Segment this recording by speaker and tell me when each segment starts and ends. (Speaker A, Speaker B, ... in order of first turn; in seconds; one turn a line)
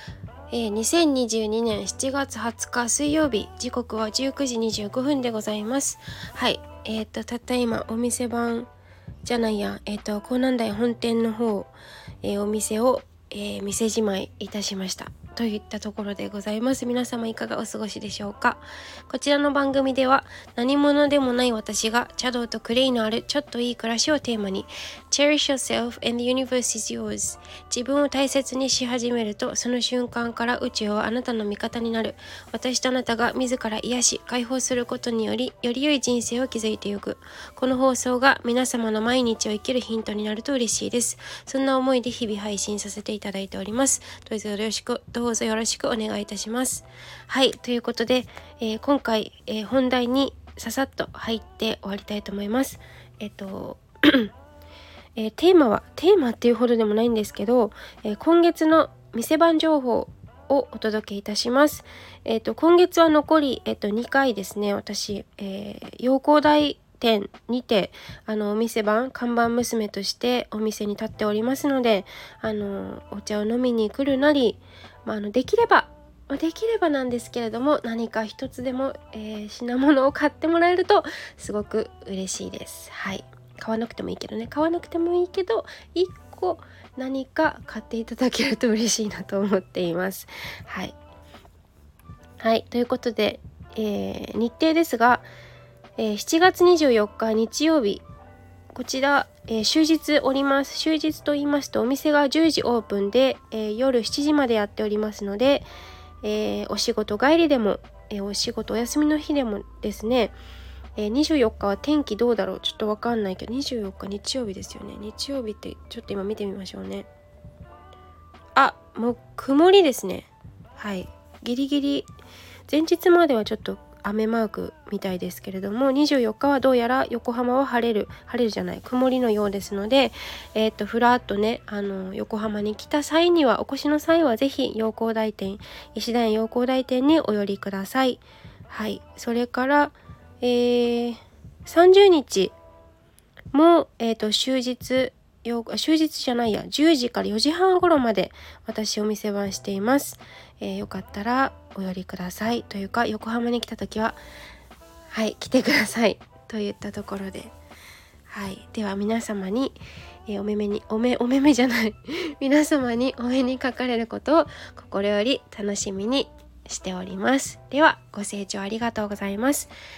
Speaker A: 0.5-8.7
Speaker A: 9.2-11.7
Speaker A: 12.2-54.3
Speaker A: 55.1-91.0
Speaker A: 92.4-95.3
Speaker A: 96.0-98.0
Speaker A: 98.7-105.7
Speaker A: 106.2-110.3
Speaker A: 111.0-117.1
Speaker A: 118.6-122.1
Speaker A: 122.7-142.5
Speaker A: 143.5-154.2
Speaker A: 155.1-157.5
Speaker A: 158.3-169.7